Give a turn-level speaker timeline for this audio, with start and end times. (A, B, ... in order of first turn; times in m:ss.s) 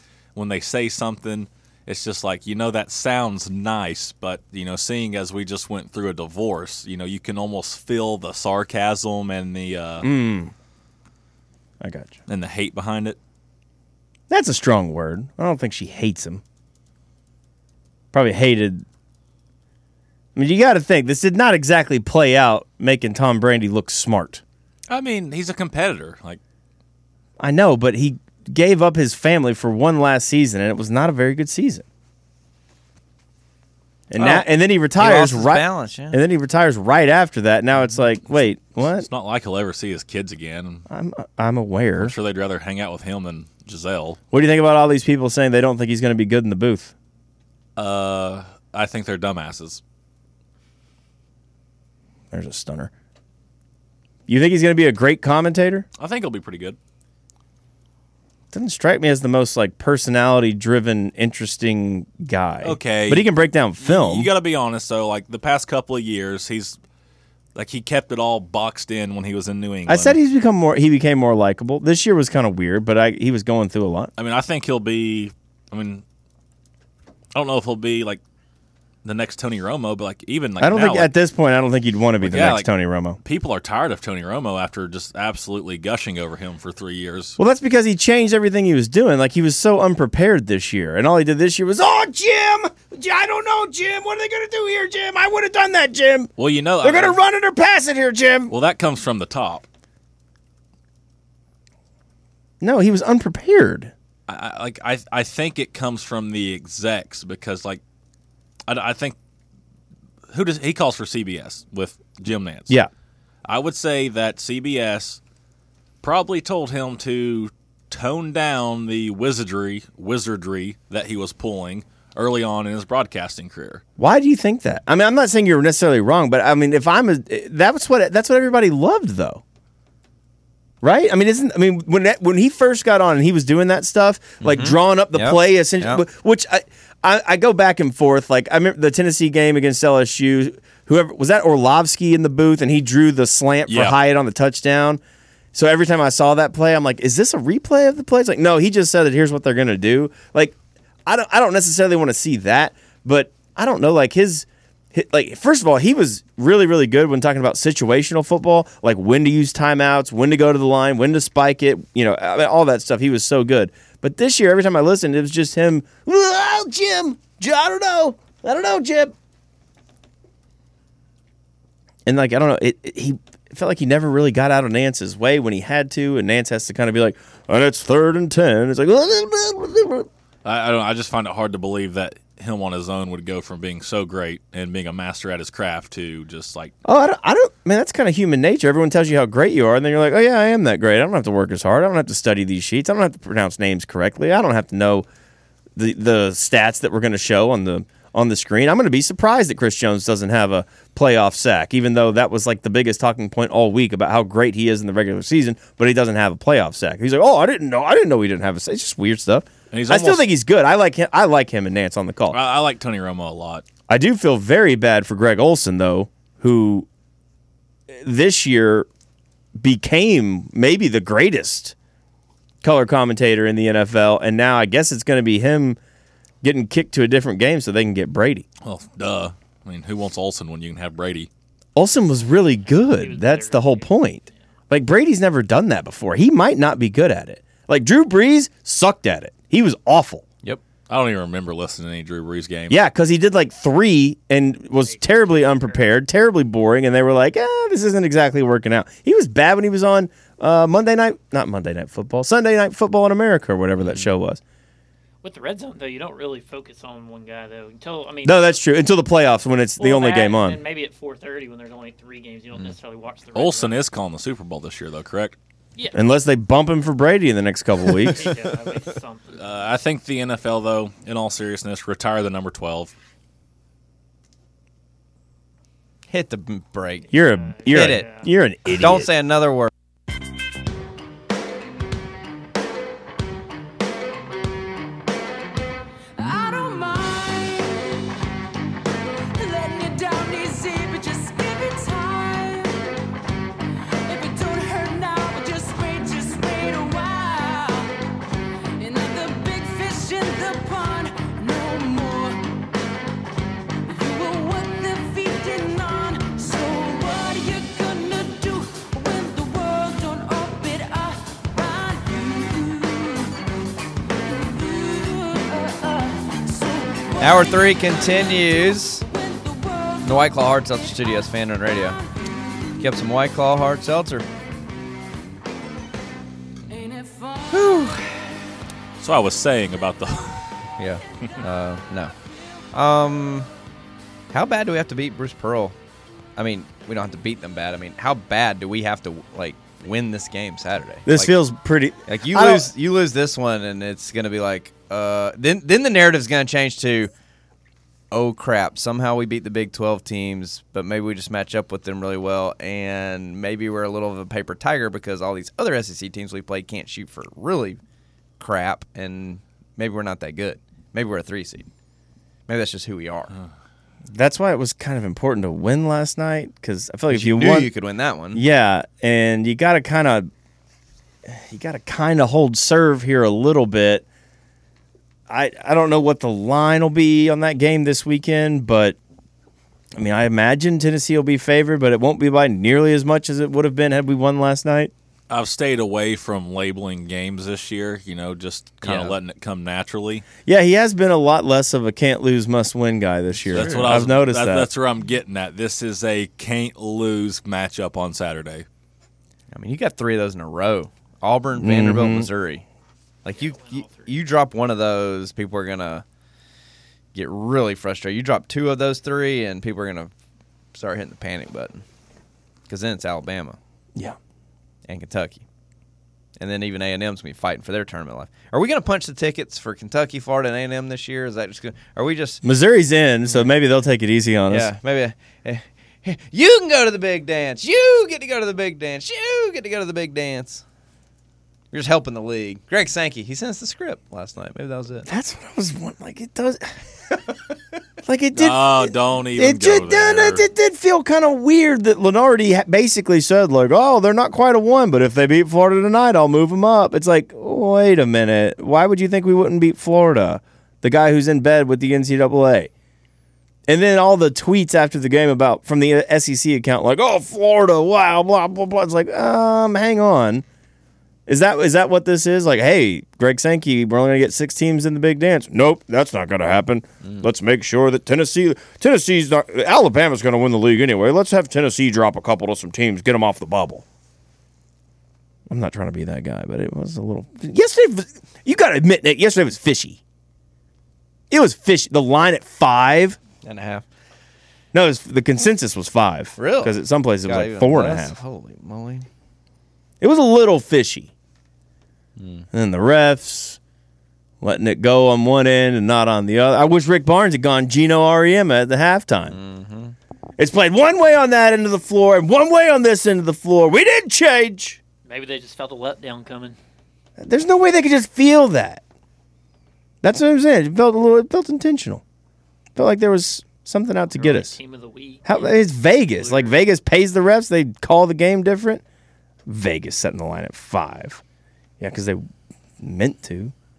0:00.4-0:10.1 A
0:10.0-0:10.5 B
0:11.8-0:12.2 B
0:12.3-0:13.2 A
0:14.3-0:16.4 B
0:18.1-0:18.8 B
0:20.4-0:24.4 B
0:24.9-0:26.4 A
0:27.4-0:31.8 B
0:34.1-0:39.1 B
0:34.2-0:36.2 C
0:38.3-0:40.9 A
0:40.9-0:42.2 B
0:42.0-0:44.2 A
0:44.3-0:46.9 B
0:47.8-0:49.8 A
0:52.3-0:52.9 B
0:54.3-0:55.9 B
0:56.0-0:56.8 A
0:58.5-1:04.3 B
1:02.6-1:06.8 A
1:07.6-1:10.2 A
1:09.9-1:14.1 B
1:14.2-1:16.0 A
1:17.4-1:18.2 A
1:19.0-1:21.1 A
1:20.6-1:23.2 B
1:22.2-1:22.7 A
1:23.2-1:27.4 A
1:27.4-1:36.3 B
1:36.4-1:37.2 A
1:36.8-1:38.5 B
1:38.5-1:39.6 A
1:42.6-1:43.9 B
1:44.3-1:47.8 A
1:48.7-1:49.2 A
1:50.3-1:52.8 A
1:53.5-1:55.2 A
1:56.0-2:03.8 A
2:04.0-2:09.4 B
2:10.8-2:25.0 B
2:14.4-2:16.0 C
2:23.7-2:24.0 A
2:25.5-2:49.1 B
2:52.1-3:00.1 B
3:00.4-3:06.7 A
3:06.8-3:15.1 B
3:15.8-3:32.4 B
3:29.7-3:30.3 A
3:32.3-3:33.6 A
3:33.9-3:36.9 B
3:37.9-3:38.9 B
3:39.6-3:41.8 B
3:42.6-3:45.8 B
3:46.4-3:48.5 B
3:48.6-3:51.3 A
3:51.8-4:00.2 B
3:52.7-3:54.3 D
4:00.9-4:02.8 A
4:02.7-4:14.4 B
4:04.9-4:05.8 D
4:15.2-4:18.6 D
4:18.2-4:20.6 B
4:19.8-4:23.8 D
4:23.4-4:25.4 A
4:25.9-4:28.4 B
4:28.0-4:29.6 D
4:29.4-4:32.9 A
4:36.1-4:37.1 C
4:37.1-4:39.1 B
4:37.4-4:38.3 D
4:37.7-4:38.1 C
4:38.7-4:39.7 C
4:46.2-4:47.9 E
4:49.4-4:52.9 E
4:54.0-4:57.9 E
4:58.8-5:02.6 E
5:03.9-5:13.4 E
5:14.1-5:22.9 E
5:17.2-5:19.0 C
5:20.0-5:22.0 C
5:22.8-5:24.3 C
5:26.7-5:27.6 E
5:27.5-5:28.4 C
5:29.0-5:30.5 A
5:30.8-5:32.1 C
5:32.7-5:33.5 C
5:34.3-5:35.8 C
5:36.4-5:41.4 C
5:41.1-5:42.7 B
5:42.1-5:47.1 C
5:48.1-5:57.8 C
5:58.4-6:01.7 C
6:02.5-6:03.3 C
6:04.1-6:07.7 B
6:07.1-6:08.4 C
6:08.3-6:10.3 B
6:11.2-6:14.0 B
6:15.3-6:19.0 B
6:20.0-6:24.9 B
6:25.3-6:30.3 A
6:28.8-6:29.1 C
6:30.5-6:34.7 B
6:33.5-6:33.9 C
6:33.5-6:38.7 A
6:39.5-6:42.7 C
6:41.6-6:42.3 B
6:43.2-6:46.0 C
6:43.3-6:44.2 D
6:47.1-6:50.1 C
6:50.7-6:51.8 C
6:52.7-6:53.6 C
6:54.9-6:55.4 C
6:56.4-7:02.4 C
7:02.4-7:04.7 B
7:04.5-7:10.6 C
7:11.7-7:15.1 C
7:15.1-7:16.8 B
7:18.0-7:32.7 B
7:18.4-7:20.4 A
7:33.7-7:40.4 B
7:41.3-7:53.8 B
7:55.5-8:00.0 B
8:01.3-8:03.2 B
8:03.4-8:03.9 C
8:04.7-8:08.2 B
8:06.4-8:09.1 C
8:10.0-8:11.1 B
8:12.2-8:12.5 C
8:12.5-8:13.6 B
8:14.4-8:19.4 B
8:19.3-8:20.0 C
8:20.4-8:24.8 B
8:25.0-8:26.6 D
8:27.2-8:28.8 B
8:30.0-8:32.0 B
8:32.8-8:34.6 B
8:34.1-8:36.6 D
8:35.2-8:38.8 B
8:39.5-8:41.2 B
8:41.8-8:42.2 B
8:42.8-8:43.5 B